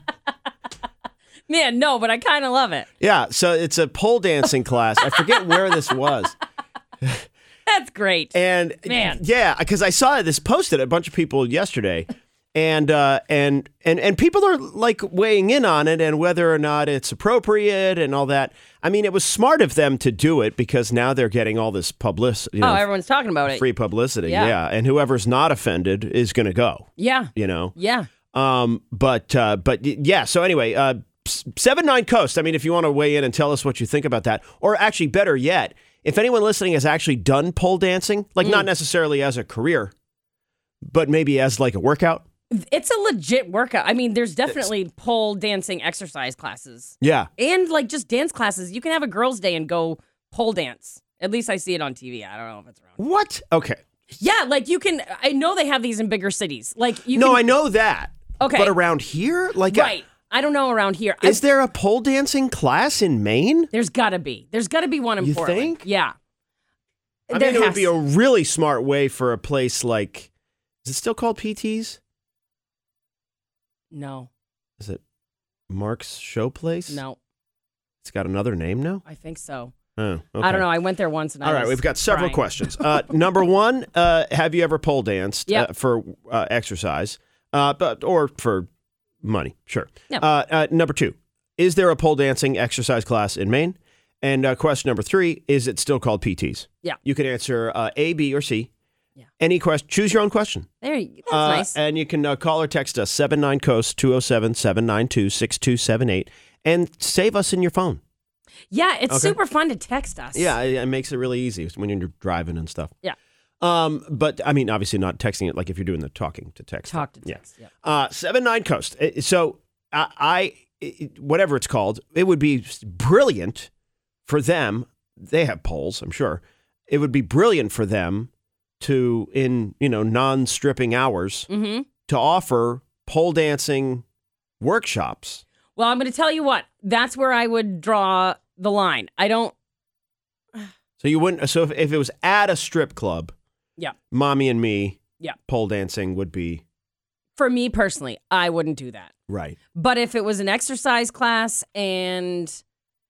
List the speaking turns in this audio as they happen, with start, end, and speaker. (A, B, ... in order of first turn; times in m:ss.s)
0:01.5-0:02.9 A
0:03.0-0:06.4 B
0:05.0-0:06.1 A
0:07.6-0:08.3 A
0:08.3-0:22.8 B
0:08.8-0:09.2 A
0:22.6-0:23.6 A
0:23.5-0:27.7 B
0:24.2-0:24.5 A
0:27.0-0:28.1 A
0:28.3-0:39.9 B
0:38.4-0:38.7 A
0:40.8-0:42.2 B
0:42.5-0:53.0 A
0:47.0-0:47.3 B
0:53.0-0:53.8 B
0:54.2-0:57.5 A
0:57.1-0:59.9 B
0:58.4-0:58.7 A
0:59.7-1:01.4 A
1:01.2-1:03.7 B
1:03.7-1:06.1 A
1:05.2-1:05.8 B
1:07.3-1:07.9 A
1:07.3-1:10.3 B
1:10.8-1:12.0 B
1:13.9-1:14.3 A
1:15.7-1:17.0 B
1:16.9-1:17.2 A
1:18.0-1:19.0 B
1:19.0-1:19.7 A
1:20.0-1:20.7 B
1:20.4-1:23.0 A
1:21.4-1:28.7 B
1:29.2-1:38.7 B
1:39.4-1:40.7 B
1:40.8-1:41.7 A
1:41.3-1:48.0 B
1:48.7-1:50.5 A
1:49.1-1:49.4 B
1:50.3-1:52.9 B
1:53.6-2:03.7 B
1:56.9-1:57.7 A
2:04.2-2:11.5 B
2:11.5-2:11.9 A
2:12.1-2:14.0 B
2:14.6-2:15.4 B
2:15.8-2:19.5 A
2:21.0-2:23.3 B
2:24.1-2:26.6 B
2:27.4-2:29.1 A
2:29.3-2:29.6 B
2:29.7-2:32.6 A